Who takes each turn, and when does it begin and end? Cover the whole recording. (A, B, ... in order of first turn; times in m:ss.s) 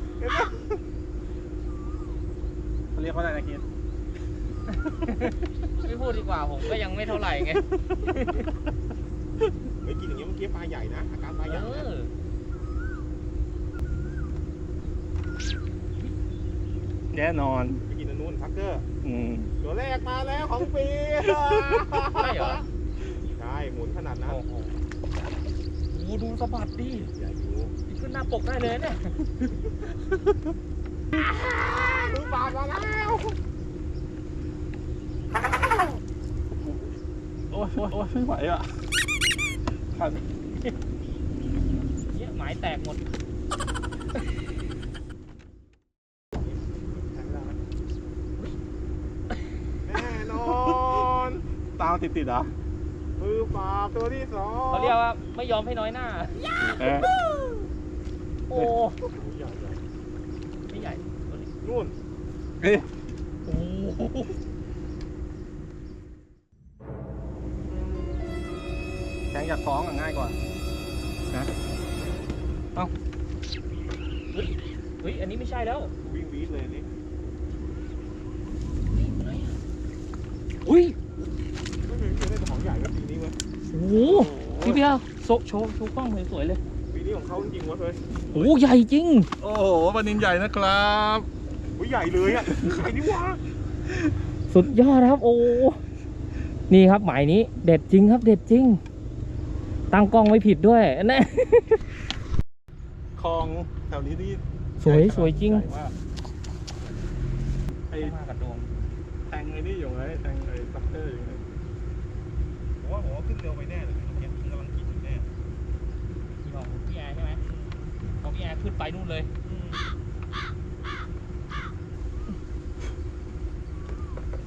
0:00.2-0:00.8 A
0:02.9-0:03.6 B
0:04.7-0:08.5 C
0:09.8-0:11.9 A
0:11.5-0:12.1 C
0:17.1-0:17.8 B
0:17.9-0:18.9 A
0:19.0-0:19.5 B
0:19.6-0:24.4 A
0:22.0-0:22.7 C
0:24.3-0:24.8 C
0:25.9-0:27.1 C
0:27.2-0:27.7 A
0:27.9-0:29.5 C
0:31.3-0:33.4 A
0:37.5-0:38.9 B
0:39.9-0:40.8 B
0:42.1-0:43.1 C
0:46.4-0:47.6 A
0:49.8-0:51.4 A
0:50.4-0:51.0 B
0:51.8-0:52.5 B
0:53.2-0:55.0 A
0:54.7-0:57.1 C
0:56.6-0:57.1 B
0:58.5-0:59.0 C
0:59.0-0:59.8 A
1:00.7-1:01.5 C
1:01.6-1:01.9 A
1:02.6-1:02.9 B
1:03.5-1:04.3 C
1:09.3-1:10.4 B
1:14.3-1:15.9 C
1:16.0-1:16.9 A
1:18.9-1:19.6 C
1:20.6-1:21.0 C
1:21.8-1:23.4 A
1:23.7-1:26.6 C
1:24.0-1:24.8 B
1:26.9-1:28.0 A
1:28.3-1:29.3 C
1:29.4-1:31.3 B
1:31.8-1:33.4 A
1:34.5-1:35.8 C
1:36.7-1:38.8 C
1:39.9-1:41.8 C
1:43.2-1:45.9 B
1:44.8-1:45.7 C
1:48.0-1:48.7 C
1:49.3-1:51.4 B
1:52.8-1:55.3 A
1:56.4-1:57.4 C
1:57.4-1:57.9 A
1:58.2-1:59.3 C
1:59.4-1:59.9 A